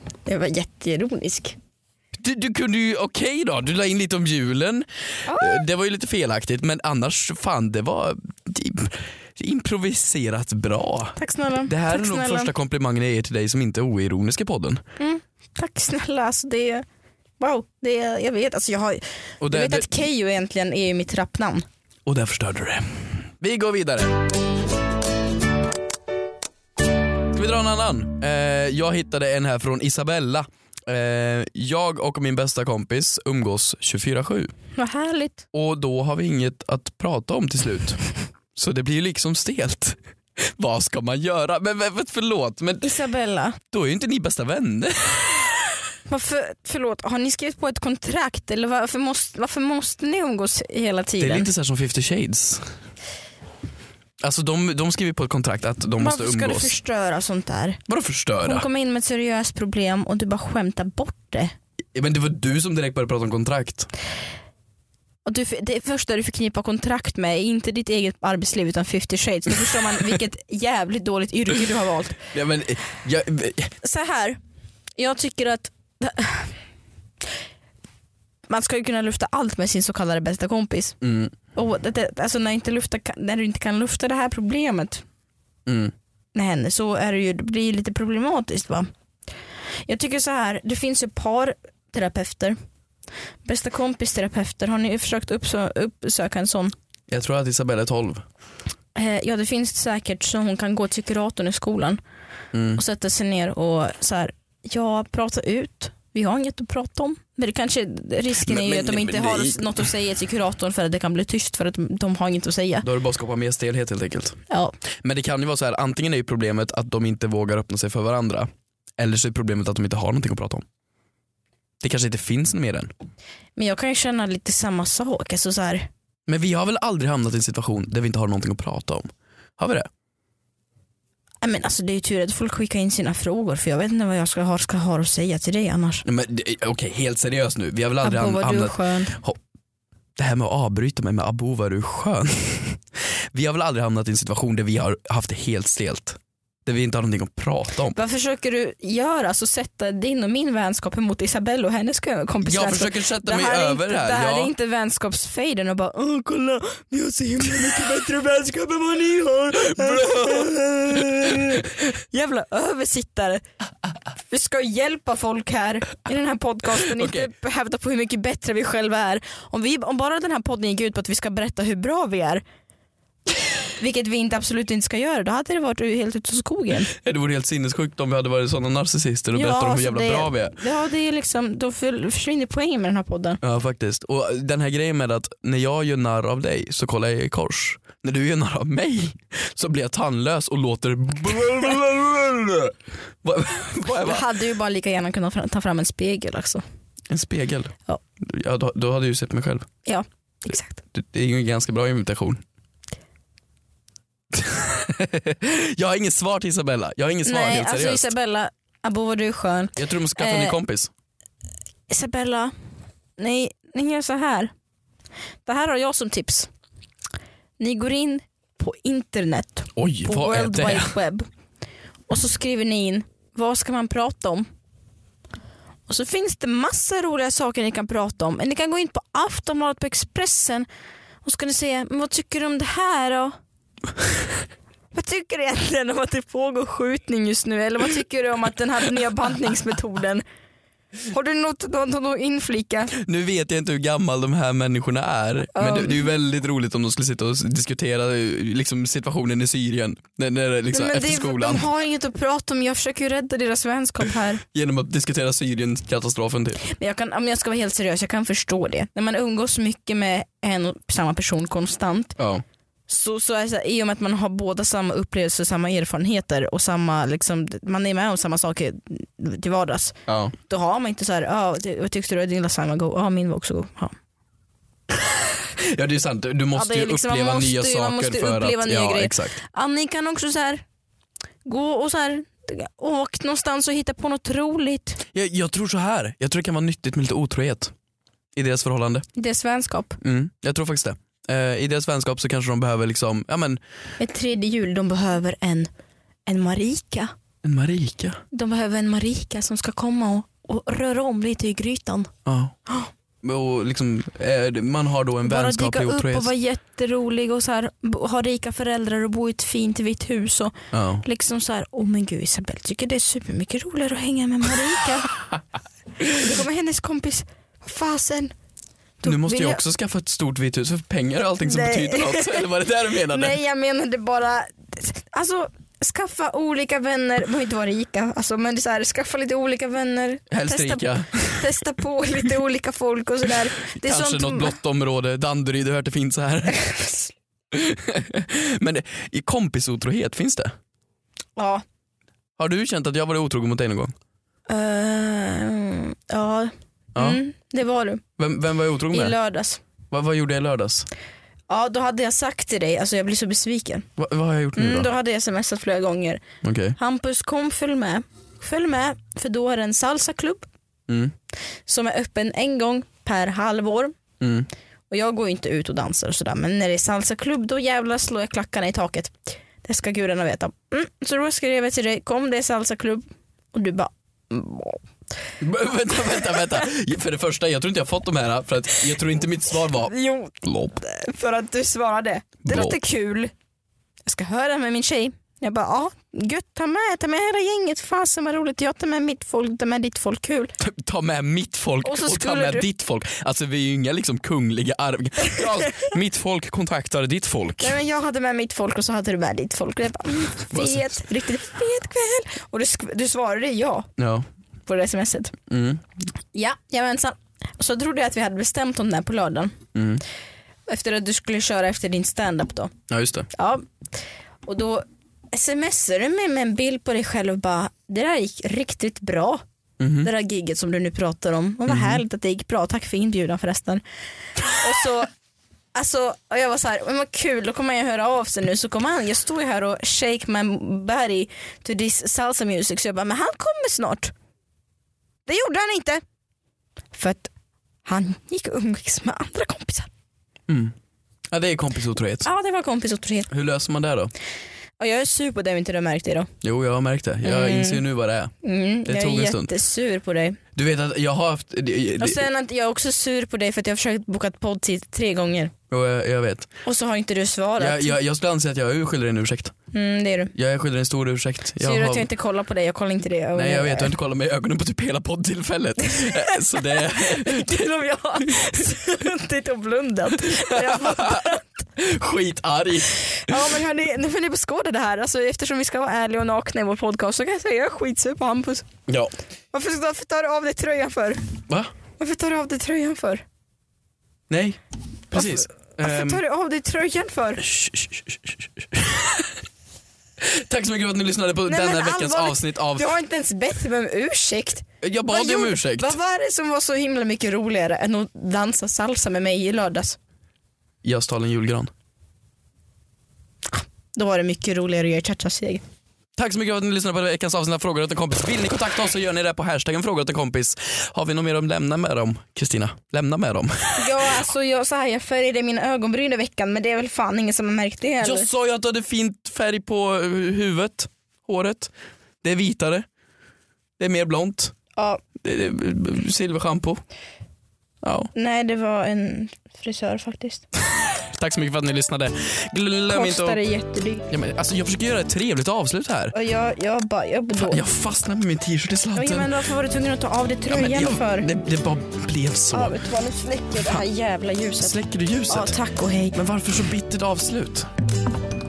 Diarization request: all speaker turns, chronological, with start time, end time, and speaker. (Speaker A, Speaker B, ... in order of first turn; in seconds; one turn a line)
Speaker A: 0.3-1.6
Speaker B: 2.1-14.8
Speaker A: 5.3-5.6
Speaker A: 11.2-12.5
Speaker A: 15.0-16.9
Speaker A: 17.4-21.7
Speaker B: 19.4-19.9
Speaker B: 22.1-24.2
Speaker B: 27.3-34.5
Speaker A: 34.8-35.4
Speaker B: 35.5-38.0
Speaker B: 38.5-42.9
Speaker A: 42.8-43.6
Speaker B: 43.7-45.7
Speaker A: 46.1-51.5
Speaker B: 51.2-52.7
Speaker B: 54.2-56.7
Speaker A: 56.0-57.8
Speaker B: 57.9-58.7
Speaker A: 58.4-61.5
Speaker B: 61.9-63.9
Speaker A: 65.3-72.2
Speaker B: 72.3-73.7
Speaker A: 73.8-74.4
Speaker A: 75.0-76.5
Speaker A: 78.5-81.0
Speaker B: 81.0-81.3
Speaker A: 81.5-85.0
Speaker B: 85.7-85.9
Speaker A: 86.3-88.9
Speaker A: 89.9-92.6
Speaker A: 93.5-96.7
Speaker B: 97.1-98.2
Speaker A: 99.0-102.0
Speaker B: 102.5-102.8
Speaker A: 102.8-112.9
Speaker B: 108.4-109.6
Speaker B: 112.8-114.4
Speaker A: 114.5-114.7
Speaker B: 115.0-120.7
Speaker B: 121.8-122.9
Speaker A: 123.6-125.9
Speaker B: 126.3-129.9
Speaker A: 131.4-136.0
Speaker B: 136.1-139.4
Speaker A: 138.0-139.2
Speaker B: 140.2-148.0
Speaker A: 147.9-163.4
Speaker B: 152.4-154.5
Speaker B: 159.5-161.6
Speaker A: 164.2-172.4
Speaker B: 167.0-167.3
Speaker A: 173.8-176.9
Speaker B: 176.9-180.6
Speaker A: 179.3-183.4
Speaker B: 183.4-194.2
Speaker A: 194.0-196.6
Speaker B: 197.1-199.7
Speaker A: 199.8-200.8
Speaker B: 200.9-202.4
Speaker B: 204.3-208.1
Speaker A: 207.2-210.6
Speaker B: 209.8-210.9
Speaker A: 211.9-212.5
Speaker A: 213.2-214.5
Speaker A: 215.5-216.5
Speaker A: 217.6-221.3
Speaker B: 219.8-220.9
Speaker A: 222.1-224.5
Speaker A: 225.9-230.7
Speaker A: 231.2-233.4
Speaker A: 234.9-240.2
Speaker A: 241.1-242.9
Speaker B: 242.9-251.7
Speaker A: 245.5-246.1
Speaker A: 250.7-254.4
Speaker B: 254.5-256.6
Speaker A: 256.6-262.2
Speaker B: 262.2-262.4
Speaker A: 262.9-273.9
Speaker B: 270.1-270.3
Speaker B: 275.6-279.4
Speaker A: 276.5-280.6
Speaker A: 281.4-285.0
Speaker B: 285.1-287.7
Speaker B: 288.4-289.1
Speaker A: 289.1-290.0
Speaker B: 290.0-293.6
Speaker A: 294.0-295.7
Speaker A: 296.3-297.1
Speaker B: 297.4-298.2
Speaker A: 298.3-302.1
Speaker B: 302.3-302.6
Speaker B: 303.2-306.3
Speaker A: 305.2-315.2
Speaker B: 310.7-311.0
Speaker A: 316.1-318.3
Speaker A: 319.0-319.6
Speaker B: 319.1-323.4
Speaker A: 321.4-322.5
Speaker A: 323.1-334.6
Speaker B: 330.3-331.5
Speaker B: 333.7-336.6
Speaker A: 336.6-337.1
Speaker B: 337.5-340.6
Speaker A: 341.4-341.6
Speaker B: 342.4-343.9
Speaker A: 344.5-348.0
Speaker B: 346.9-347.2
Speaker B: 348.2-349.2
Speaker A: 348.9-349.6
Speaker B: 349.9-350.9
Speaker A: 351.5-353.9
Speaker B: 354.0-354.9
Speaker A: 354.6-356.2
Speaker B: 356.4-356.8
Speaker A: 356.8-360.5
Speaker B: 360.9-361.1
Speaker A: 361.7-364.0
Speaker B: 364.2-364.5
Speaker A: 364.9-374.8
Speaker B: 375.4-380.7
Speaker A: 379.7-383.3
Speaker B: 382.4-382.8
Speaker A: 384.1-390.5
Speaker B: 390.6-397.8
Speaker A: 391.8-392.7
Speaker A: 397.6-403.9
Speaker B: 400.5-401.0
Speaker B: 404.0-404.3
Speaker A: 404.7-405.4
Speaker B: 405.5-405.8
Speaker A: 406.3-409.6
Speaker B: 409.8-410.0
Speaker A: 410.7-412.7
Speaker B: 412.9-413.3
Speaker A: 413.3-413.7
Speaker A: 414.4-419.4
Speaker B: 419.8-420.1
Speaker A: 420.0-423.8
Speaker B: 421.7-422.0
Speaker A: 424.5-425.1
Speaker A: 425.7-434.1
Speaker A: 435.3-436.0
Speaker A: 436.9-437.3
Speaker A: 437.9-439.9
Speaker B: 440.5-440.8
Speaker B: 441.3-442.3
Speaker A: 442.2-443.3
Speaker B: 443.3-444.1
Speaker A: 444.8-446.3
Speaker B: 446.4-448.3
Speaker A: 447.2-447.8
Speaker A: 448.4-450.4
Speaker B: 448.9-449.5
Speaker B: 450.6-452.2
Speaker A: 452.0-455.5
Speaker B: 455.7-456.5
Speaker A: 456.6-458.0
Speaker B: 457.6-459.5
Speaker A: 459.7-460.3
Speaker B: 460.4-462.1
Speaker A: 461.6-463.9
Speaker B: 463.4-467.7
Speaker A: 466.0-471.4
Speaker B: 468.3-468.6
Speaker B: 470.2-473.5
Speaker A: 473.2-478.7
Speaker A: 479.5-481.2
Speaker A: 482.0-483.2
Speaker B: 484.3-484.6
Speaker B: 485.1-486.2
Speaker A: 485.1-487.5
Speaker B: 487.4-489.3
Speaker B: 490.2-492.9
Speaker A: 491.5-500.0
Speaker B: 494.8-495.9
Speaker B: 500.8-501.7
Speaker A: 503.5-505.6
Speaker B: 506.2-514.2
Speaker A: 513.8-518.3
Speaker B: 518.0-522.9
Speaker B: 523.8-524.5
Speaker A: 524.8-525.0
Speaker B: 525.2-526.8
Speaker B: 527.8-528.1
Speaker A: 528.1-530.5
Speaker B: 530.8-533.4
Speaker A: 532.9-534.1
Speaker B: 534.1-536.1
Speaker A: 536.1-537.7
Speaker B: 537.4-539.3
Speaker A: 538.9-541.3
Speaker B: 540.5-542.8
Speaker A: 542.5-544.8
Speaker B: 544.6-545.6
Speaker A: 545.3-546.2
Speaker B: 546.1-547.7